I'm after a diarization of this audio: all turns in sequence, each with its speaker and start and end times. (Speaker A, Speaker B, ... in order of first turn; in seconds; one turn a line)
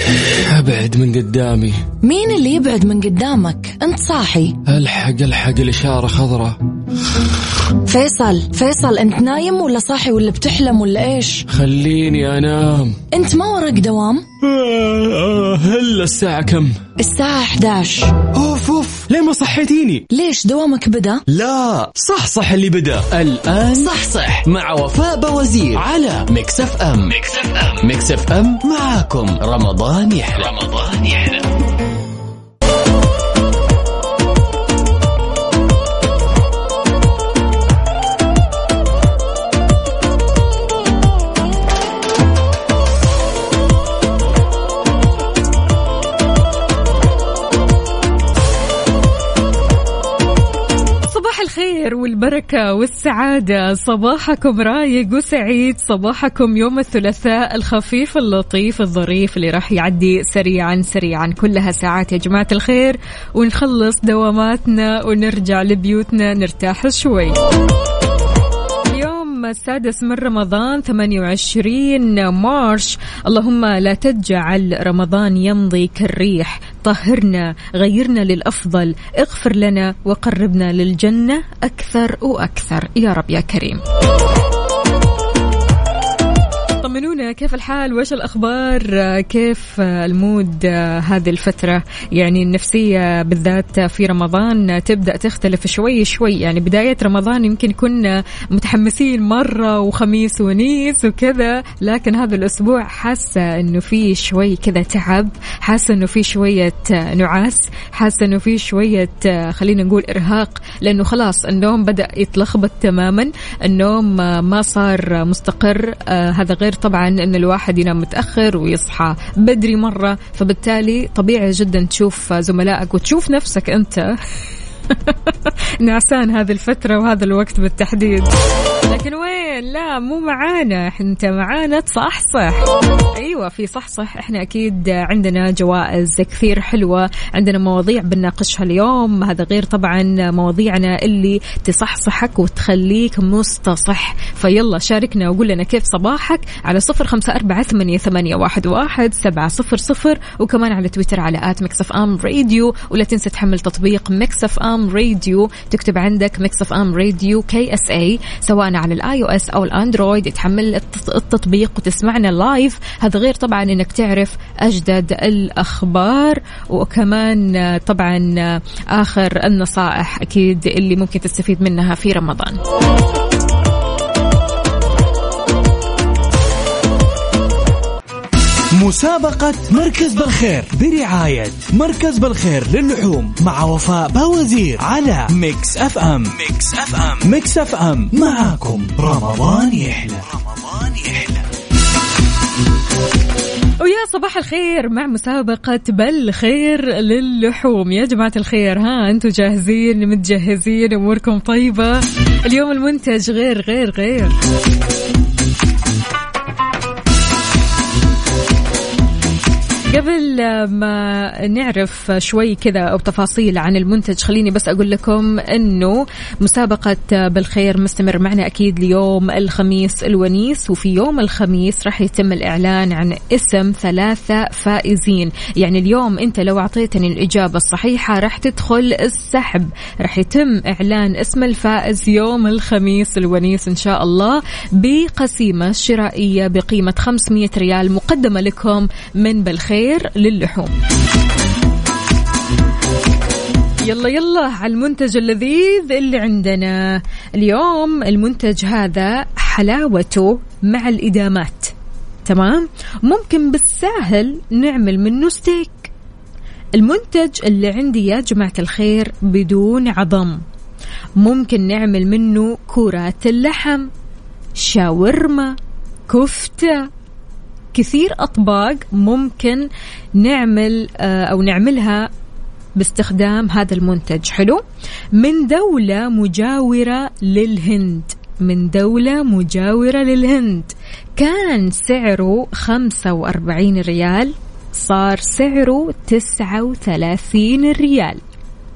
Speaker A: 0.5-1.8
Speaker B: 2.0-4.6
Speaker A: 4.6-6.6
Speaker B: 7.9-11.4
Speaker A: 11.5-13.0
Speaker B: 13.1-14.2
Speaker A: 14.4-16.8
Speaker B: 17.0-18.1
Speaker A: 18.3-20.0
Speaker B: 20.1-21.2
Speaker C: 21.3-21.9
Speaker A: 21.9-23.1
Speaker C: 23.1-31.4
Speaker D: 51.1-67.4
Speaker D: 68.9-83.8
Speaker D: 86.8-124.2
Speaker D: 124.9-128.3
Speaker D: 128.9-172.6
Speaker E: 178.7-191.4
Speaker D: 193.8-204.3
Speaker D: 209.9-240.7
Speaker D: 243.8-251.7
Speaker D: 252.2-255.9
Speaker D: 256.8-260.4
Speaker D: 261.2-263.9
Speaker D: 264.6-265.6
Speaker D: 266.1-266.9
Speaker D: 267.7-269.7
Speaker D: 270.2-272.1
Speaker D: 272.8-274.6
Speaker D: 275.1-288.2